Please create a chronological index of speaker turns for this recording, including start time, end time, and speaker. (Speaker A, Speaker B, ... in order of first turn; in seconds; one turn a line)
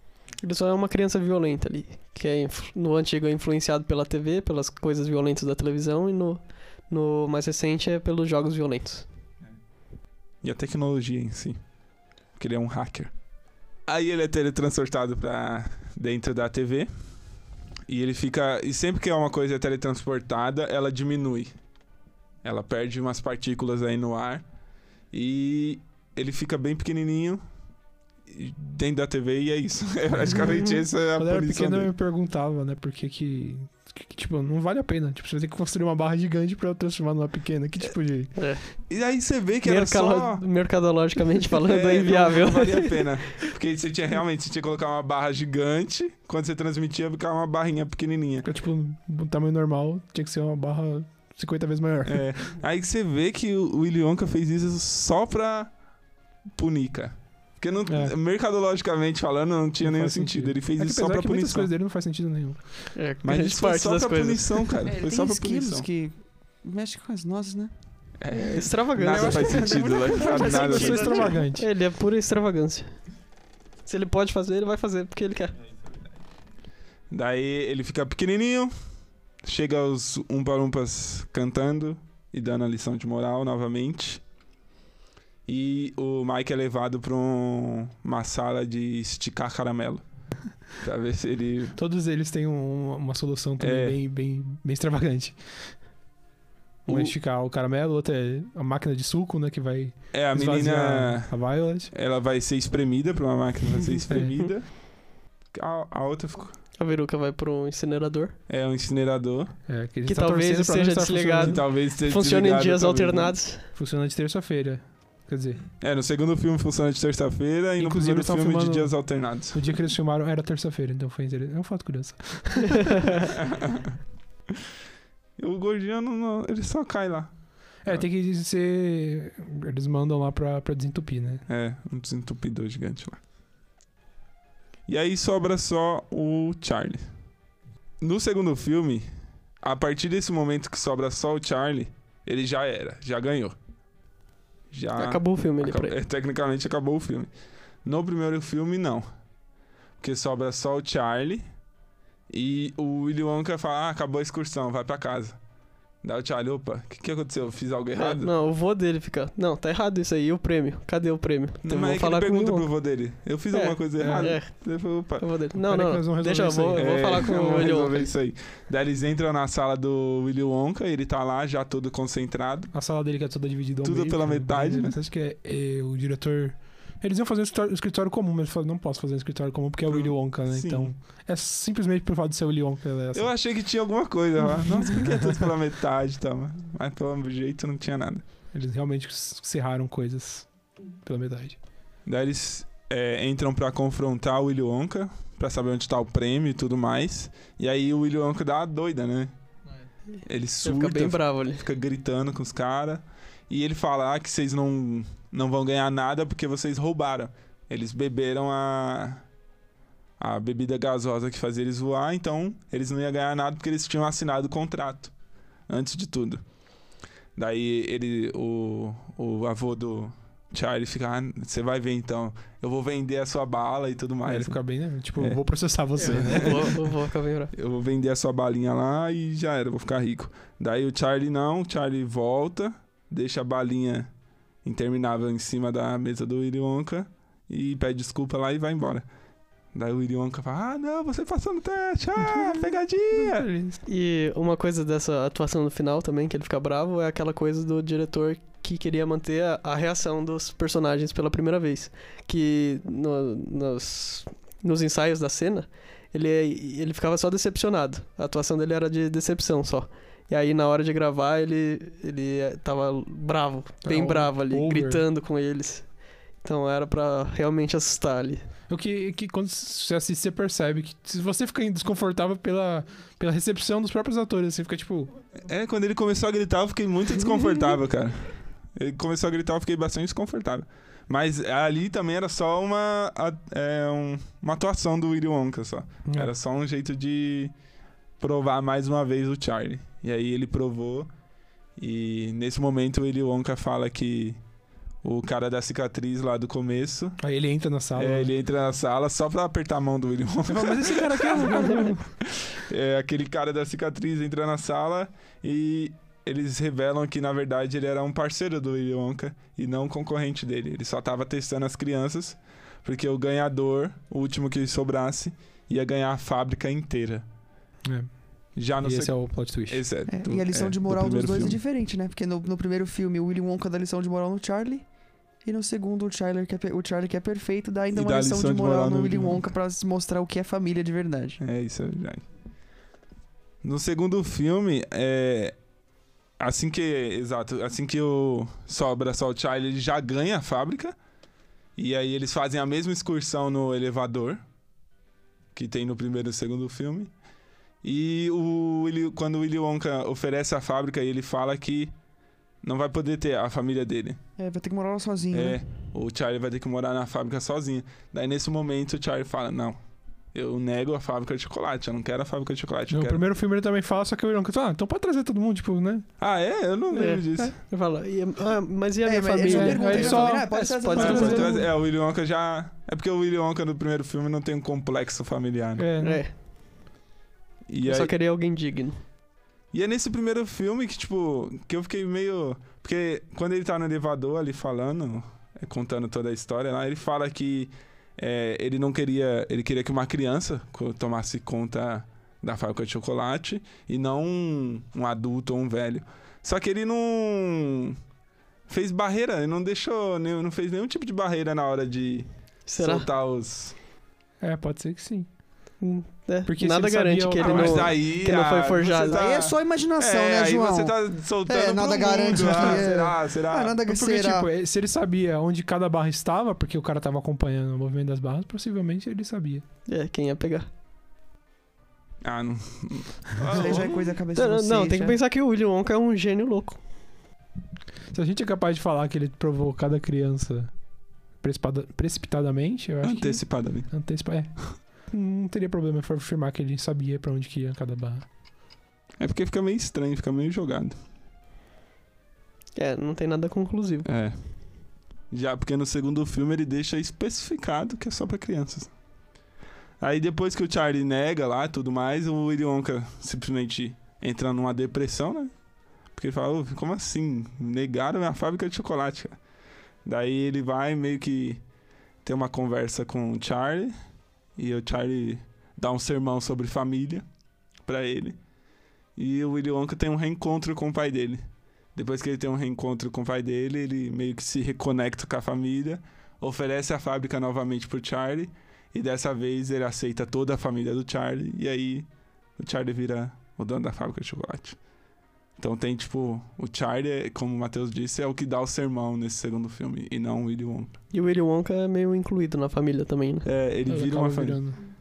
Speaker A: 0.4-9.1
Speaker B: 10.4-11.6
Speaker B: 12.4-13.1
Speaker B: 13.9-16.9
Speaker B: 17.9-21.5
Speaker B: 22.4-24.4
Speaker B: 25.1-27.4
Speaker B: 28.3-31.9
Speaker C: 31.1-38.4
Speaker A: 38.4-38.6
Speaker B: 38.9-40.4
Speaker A: 39.6-43.3
Speaker B: 41.6-48.5
Speaker C: 48.5-52.4
Speaker B: 52.0-55.7
Speaker B: 56.5-61.7
Speaker C: 57.9-58.1
Speaker C: 59.8-63.0
Speaker A: 63.0-64.8
Speaker B: 63.2-65.9
Speaker D: 64.8-67.7
Speaker B: 68.2-71.3
Speaker A: 68.3-73.0
Speaker D: 69.0-71.4
Speaker C: 70.5-71.7
Speaker A: 73.9-75.5
Speaker B: 77.1-78.7
Speaker B: 79.4-84.2
Speaker B: 85.5-90.0
Speaker B: 90.8-91.8
Speaker C: 91.8-95.8
Speaker B: 93.6-94.0
Speaker B: 96.9-97.2
Speaker C: 96.9-101.9
Speaker B: 100.1-104.9
Speaker A: 104.2-104.5
Speaker B: 105.5-106.6
Speaker A: 106.8-108.4
Speaker B: 108.5-109.6
Speaker C: 109.7-111.6
Speaker A: 110.0-113.7
Speaker B: 111.4-113.4
Speaker C: 113.8-115.6
Speaker B: 115.8-119.6
Speaker C: 117.8-123.1
Speaker B: 123.3-124.0
Speaker B: 125.4-127.3
Speaker C: 127.8-131.4
Speaker B: 131.5-133.2
Speaker B: 134.9-137.1
Speaker B: 138.0-139.1
Speaker B: 139.6-143.6
Speaker B: 144.7-147.3
Speaker A: 144.9-145.9
Speaker B: 147.8-149.1
Speaker B: 150.0-151.4
Speaker B: 152.3-155.4
Speaker B: 156.0-158.3
Speaker A: 158.0-162.7
Speaker B: 161.6-165.3
Speaker A: 163.5-168.1
Speaker C: 164.0-164.4
Speaker C: 165.6-167.5
Speaker B: 166.7-172.7
Speaker C: 172.7-183.3
Speaker B: 173.8-175.0
Speaker B: 179.9-180.9
Speaker B: 183.1-188.2
Speaker C: 188.5-191.6
Speaker B: 192.1-199.3
Speaker A: 200.2-201.6
Speaker B: 200.3-209.3
Speaker B: 210.2-215.1
Speaker B: 215.7-216.4
Speaker B: 217.4-224.6
Speaker C: 224.3-226.7
Speaker B: 225.2-225.4
Speaker A: 226.0-227.5
Speaker B: 226.0-226.8
Speaker B: 227.5-234.1
Speaker B: 234.6-239.1
Speaker B: 239.7-243.5
Speaker C: 242.2-243.8
Speaker A: 243.9-268.5
Speaker C: 263.8-265.0
Speaker C: 268.7-275.1
Speaker B: 275.4-287.5
Speaker C: 286.1-286.3
Speaker B: 288.2-291.1
Speaker B: 291.8-294.4
Speaker B: 295.0-297.2
Speaker C: 297.2-298.3
Speaker B: 297.9-317.3
Speaker C: 300.5-302.1
Speaker C: 317.9-318.1
Speaker B: 318.6-321.6
Speaker C: 318.8-319.8
Speaker D: 320.1-324.9
Speaker D: 325.4-331.4
Speaker B: 327.9-329.4
Speaker B: 331.4-332.2
Speaker B: 333.6-335.6
Speaker B: 336.4-341.0
Speaker B: 341.8-344.4
Speaker B: 345.5-347.1
Speaker B: 347.8-351.9
Speaker B: 352.6-354.2
Speaker D: 354.4-355.6
Speaker B: 355.3-359.8
Speaker B: 360.3-363.2
Speaker C: 362.9-366.1
Speaker B: 366.2-367.6
Speaker A: 366.9-371.4
Speaker D: 369.1-371.6
Speaker C: 369.4-371.7
Speaker B: 371.0-375.9
Speaker C: 375.8-376.2
Speaker A: 376.0-376.4
Speaker B: 377.7-378.1
Speaker A: 377.8-379.0
Speaker B: 379.7-398.0
Speaker B: 398.7-403.8
Speaker A: 402.7-403.1
Speaker C: 404.4-405.3
Speaker A: 405.8-409.2
Speaker C: 406.5-408.0
Speaker B: 407.4-413.8
Speaker D: 409.1-414.5
Speaker C: 413.9-419.6
Speaker A: 419.9-420.7
Speaker B: 422.2-424.0
Speaker D: 423.5-425.2
Speaker A: 423.6-426.8
Speaker C: 428.1-430.7
Speaker C: 431.4-438.3
Speaker B: 433.0-433.9
Speaker B: 439.2-441.0
Speaker A: 442.8-444.1
Speaker B: 444.1-444.4
Speaker B: 445.3-448.9
Speaker B: 450.0-455.5
Speaker B: 456.1-459.4
Speaker B: 460.1-461.6
Speaker B: 462.2-463.9
Speaker B: 464.6-467.2
Speaker B: 467.9-468.4
Speaker B: 469.2-471.4
Speaker B: 471.9-484.8
Speaker B: 485.6-490.9
Speaker A: 491.1-493.5
Speaker B: 493.4-494.6
Speaker C: 493.9-494.8